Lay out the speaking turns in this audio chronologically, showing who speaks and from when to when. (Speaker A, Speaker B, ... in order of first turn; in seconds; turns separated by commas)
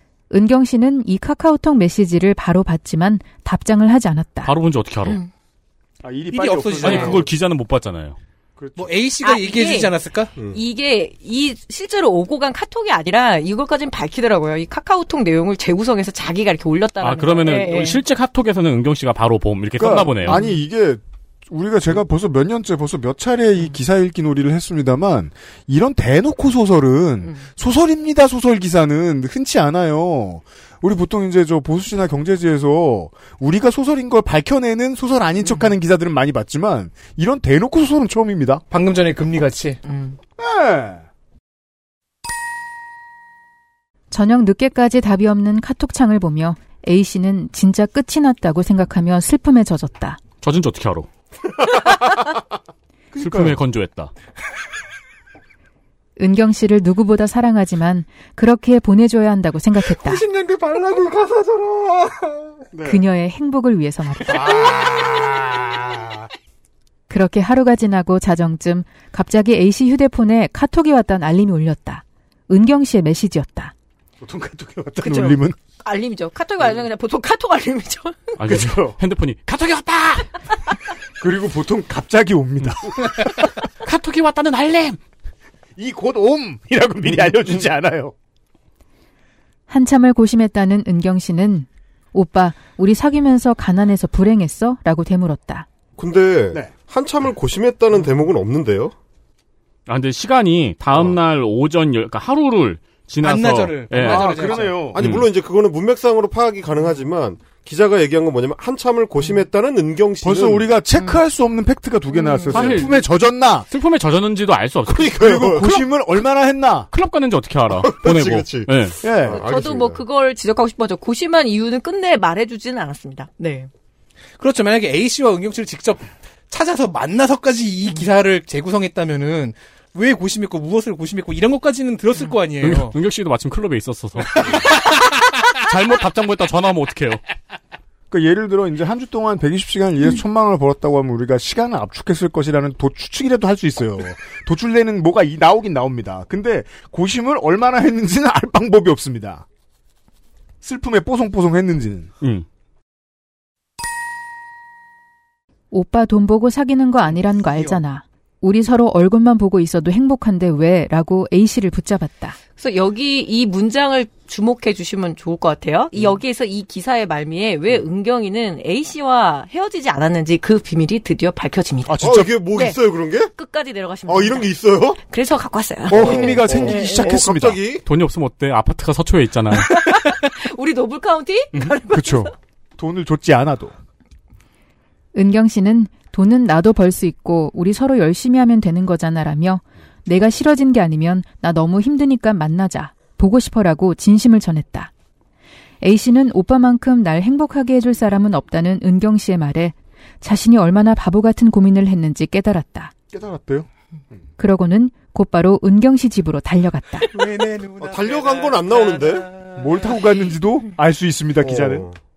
Speaker A: 0.3-4.5, Speaker B: 4.4-5.2, Speaker C: 6.0-7.3, Speaker D: 6.3-7.2, Speaker B: 6.8-8.2, Speaker C: 8.6-8.9, Speaker D: 8.8-10.3, Speaker E: 9.2-9.9, Speaker E: 10.5-18.0, Speaker B: 17.0-20.4, Speaker C: 19.8-38.6, Speaker E: 20.3-20.6, Speaker D: 38.7-39.8, Speaker E: 39.9-40.2, Speaker C: 40.4-41.0, Speaker A: 44.1-50.2, Speaker B: 50.4-51.1, Speaker C: 53.1-53.6, Speaker B: 53.1-54.1, Speaker A: 56.2-60.2, Speaker D: 60.1-62.0, Speaker C: 62.7-63.0, Speaker A: 62.8-64.5, Speaker C: 64.3-66.1, Speaker A: 67.1-73.7, Speaker C: 74.2-75.6, Speaker E: 75.0-78.4, Speaker B: 78.4-80.3, Speaker C: 78.4-79.0, Speaker C: 81.2-83.2, Speaker B: 83.2-85.0, Speaker C: 85.8-88.1, Speaker A: 89.7-95.7, Speaker F: 96.0-98.9, Speaker B: 99.9-105.3, Speaker D: 103.2-104.9, Speaker C: 103.9-105.1, Speaker F: 104.9-110.8, Speaker C: 110.2-113.7, Speaker E: 112.1-112.5, Speaker B: 112.5-113.0, Speaker B: 113.7-115.5, Speaker F: 114.8-115.8, Speaker C: 115.0-116.9, Speaker B: 116.9-119.0, Speaker F: 117.7-120.0, Speaker C: 119.0-119.4, Speaker E: 119.3-123.7, Speaker D: 124.4-132.9, Speaker B: 132.6-134.9, Speaker B: 135.6-137.2, Speaker C: 138.1-149.4, Speaker C: 150.6-152.1, Speaker A: 155.7-162.4, Speaker E: 162.6-171.9, Speaker C: 171.9-172.3, Speaker F: 172.0-173.3, Speaker E: 172.5-172.8, Speaker E: 173.3-174.5, Speaker F: 174.1-175.0, Speaker E: 175.0-177.2, Speaker C: 175.9-177.6, Speaker F: 175.9-177.8, Speaker B: 177.8-179.9, Speaker E: 179.5-182.3, Speaker C: 181.9-183.7, Speaker A: 185.1-194.9, Speaker A: 195.8-202.9, Speaker C: 203.1-203.7, Speaker A: 204.4-207.1, Speaker D: 207.1-209.8, Speaker F: 207.8-209.3, Speaker C: 209.6-211.9, Speaker F: 211.4-212.0